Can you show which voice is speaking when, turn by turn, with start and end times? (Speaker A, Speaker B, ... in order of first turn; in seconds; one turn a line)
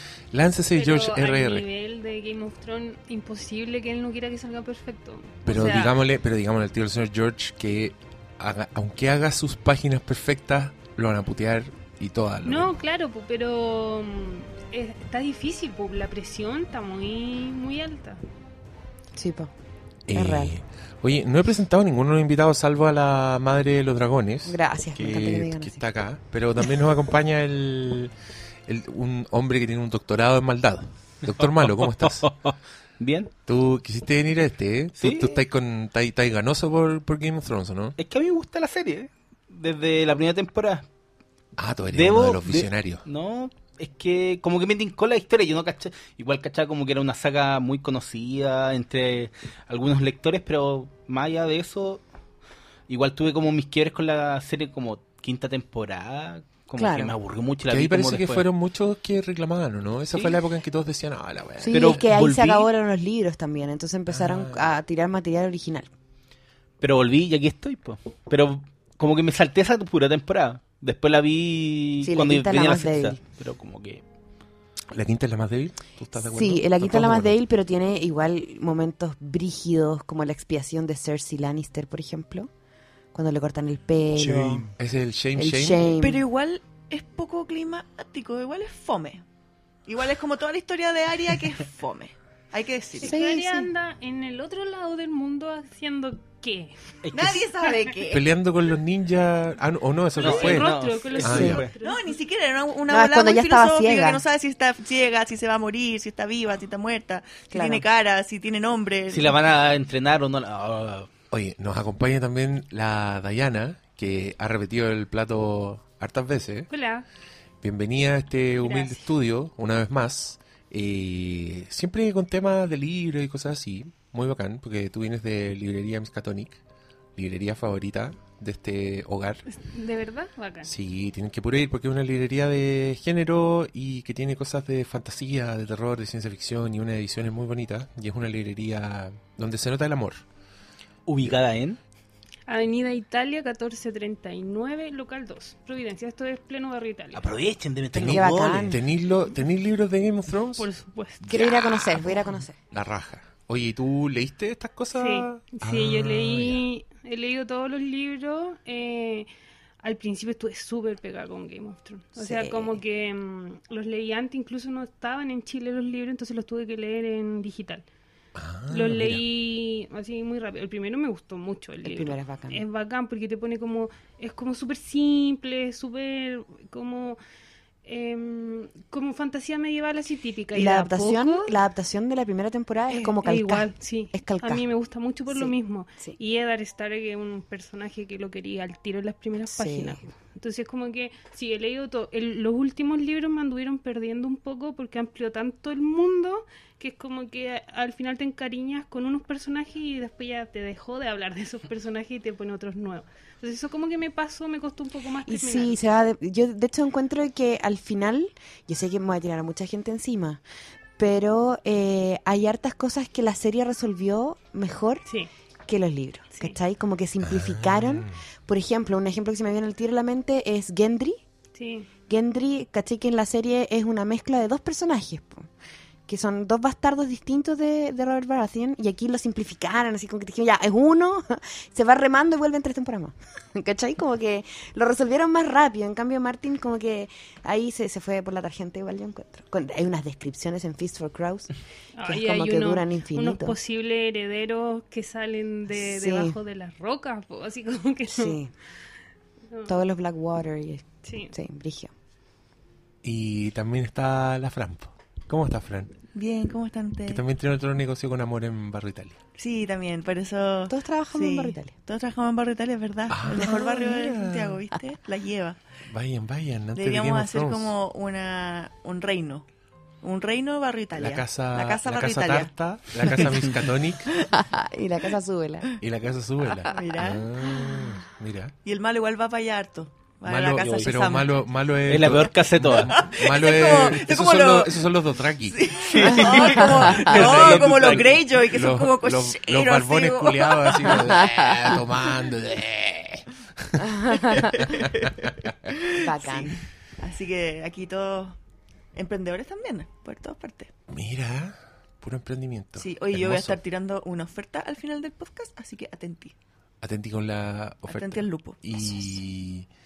Speaker A: 0.3-1.7
Speaker B: 0.7-6.0
Speaker A: 5.5-12.7
Speaker B: 12.4-18.2
Speaker C: 19.1-19.5
Speaker A: 20.1-28.1
Speaker C: 20.1-20.5
Speaker C: 24.4-25.8
Speaker A: 28.7-32.3
Speaker D: 31.6-33.3
Speaker A: 33.5-38.0
Speaker D: 35.0-35.4
Speaker D: 38.0-40.8
Speaker A: 41.6-43.0
Speaker D: 41.9-52.0
Speaker D: 52.9-58.5
Speaker C: 56.8-57.1
Speaker A: 57.7-62.0
Speaker D: 60.1-60.4
Speaker C: 61.6-65.9
Speaker D: 61.7-62.7
Speaker A: 64.1-64.7
Speaker D: 66.8-74.0
Speaker C: 72.0-73.2
Speaker A: 74.9-77.4
Speaker C: 76.3-82.5
Speaker C: 83.1-84.7
Speaker A: 84.2-85.9
Speaker C: 85.3-86.2
Speaker E: 86.0-89.2
Speaker E: 89.8-93.2
Speaker B: 93.0-96.7
Speaker C: 93.0-93.7
Speaker D: 97.0-97.4
Speaker E: 97.1-98.3
Speaker A: 98.1-101.6
Speaker D: 100.2-101.7
Speaker B: 100.2-102.2
Speaker C: 101.3-101.6
Speaker E: 101.8-109.4
Speaker C: 102.9-104.2
Speaker C: 107.5-107.8
Speaker D: 109.1-111.1
Speaker A: 111.3-116.7
Speaker B: 116.7-117.0
Speaker A: 117.6-126.6
Speaker B: 118.6-119.0
Speaker A: 127.1-129.4
Speaker B: 129.5-130.7
Speaker A: 130.6-140.2
Speaker D: 141.1-141.8
Speaker B: 142.5-147.3
Speaker D: 147.1-148.8
Speaker A: 147.9-150.7
Speaker C: 148.1-148.8
Speaker B: 150.6-151.3
Speaker A: 151.2-156.6
Speaker C: 151.3-152.5
Speaker B: 154.9-159.3
Speaker B: 159.8-167.8
Speaker C: 162.2-162.8
Speaker A: 168.3-169.2
Speaker B: 168.7-177.2
Speaker C: 171.8-172.6
Speaker B: 177.8-181.6
Speaker C: 180.5-184.6
Speaker B: 182.9-205.8
Speaker C: 185.3-186.2
Speaker C: 189.5-190.1
Speaker C: 205.2-210.4
Speaker C: 211.0-215.0
Speaker C: 215.7-221.2
Speaker A: 217.2-218.2
Speaker B: 221.5-221.9
Speaker C: 222.1-225.5
Speaker C: 226.1-241.5
Speaker B: 242.0-248.4
Speaker C: 242.0-243.6
Speaker C: 245.7-246.4
Speaker C: 248.1-248.5
Speaker C: 249.7-251.9
Speaker B: 251.0-251.3
Speaker A: 253.0-255.9
Speaker E: 256.1-257.2
Speaker A: 257.1-259.2
Speaker E: 259.4-265.6
Speaker C: 260.7-261.7
Speaker A: 263.1-264.6
Speaker A: 265.9-267.7
Speaker E: 266.7-269.4
Speaker E: 270.0-273.3
Speaker A: 270.9-274.1
Speaker C: 274.3-275.8
Speaker A: 275.8-278.5
Speaker E: 276.7-277.7
Speaker E: 278.6-281.3
Speaker A: 280.2-285.7
Speaker D: 280.6-281.1
Speaker D: 281.9-283.0
Speaker E: 282.8-284.8
Speaker E: 285.4-291.7
Speaker D: 285.8-288.2
Speaker A: 286.3-295.5
Speaker C: 293.8-294.8
Speaker E: 294.4-298.4
Speaker C: 296.0-296.6
Speaker E: 298.9-300.7
Speaker A: 300.9-303.6
Speaker E: 302.8-306.3
Speaker A: 306.8-309.7
Speaker E: 307.9-309.2